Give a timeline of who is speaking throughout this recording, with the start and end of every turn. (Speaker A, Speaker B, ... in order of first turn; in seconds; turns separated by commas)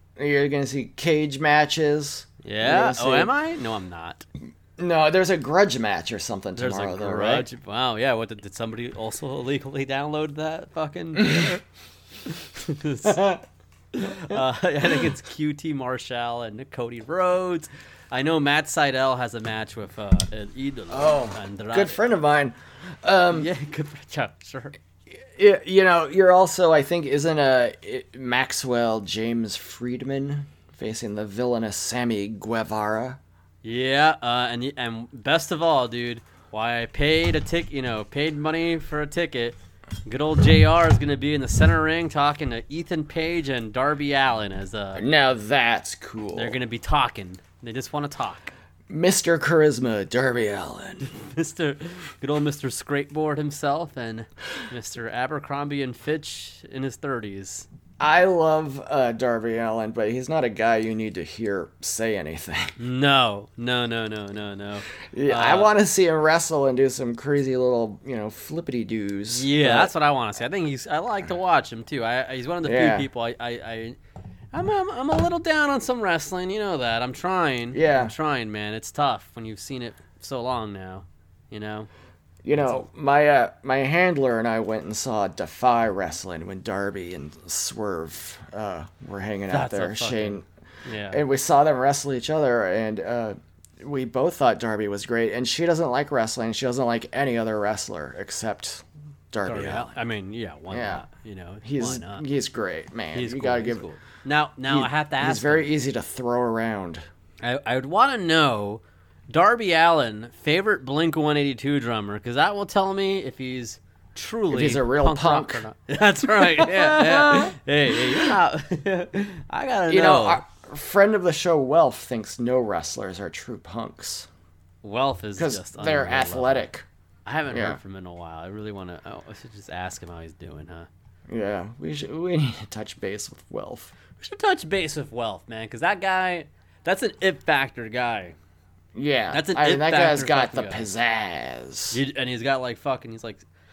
Speaker A: 0.2-3.3, Speaker B: 2.4-4.2, Speaker A: 4.8-7.5, Speaker B: 6.5-11.6, Speaker B: 12.2-13.2, Speaker A: 13.0-13.4, Speaker B: 13.9-22.0, Speaker A: 20.9-23.5, Speaker B: 23.3-24.8, Speaker A: 25.3-33.2, Speaker B: 33.6-45.0, Speaker A: 44.9-46.6, Speaker B: 46.3-48.5, Speaker A: 48.9-51.1, Speaker B: 51.1-57.7, Speaker A: 58.0-62.7, Speaker B: 62.8-65.7, Speaker A: 65.1-69.9, Speaker B: 69.3-74.0, Speaker A: 72.6-73.1, Speaker B: 74.5-81.9, Speaker A: 77.7-78.1, Speaker A: 82.4-90.4, Speaker B: 82.5-82.8, Speaker B: 89.5-91.2, Speaker A: 91.1-99.9, Speaker B: 99.4-102.2, Speaker A: 100.7-101.0, Speaker A: 101.6-103.8, Speaker B: 103.1-105.7, Speaker A: 104.7-107.0, Speaker B: 107.4-120.4, Speaker A: 114.5-115.6, Speaker A: 116.3-118.3, Speaker A: 119.9-124.3, Speaker B: 124.8-126.7, Speaker A: 125.3-126.8, Speaker B: 127.2-130.9, Speaker A: 127.5-127.8, Speaker A: 131.3-133.9, Speaker B: 134.2-138.3, Speaker A: 138.9-142.0, Speaker B: 139.3-140.9, Speaker B: 141.9-143.4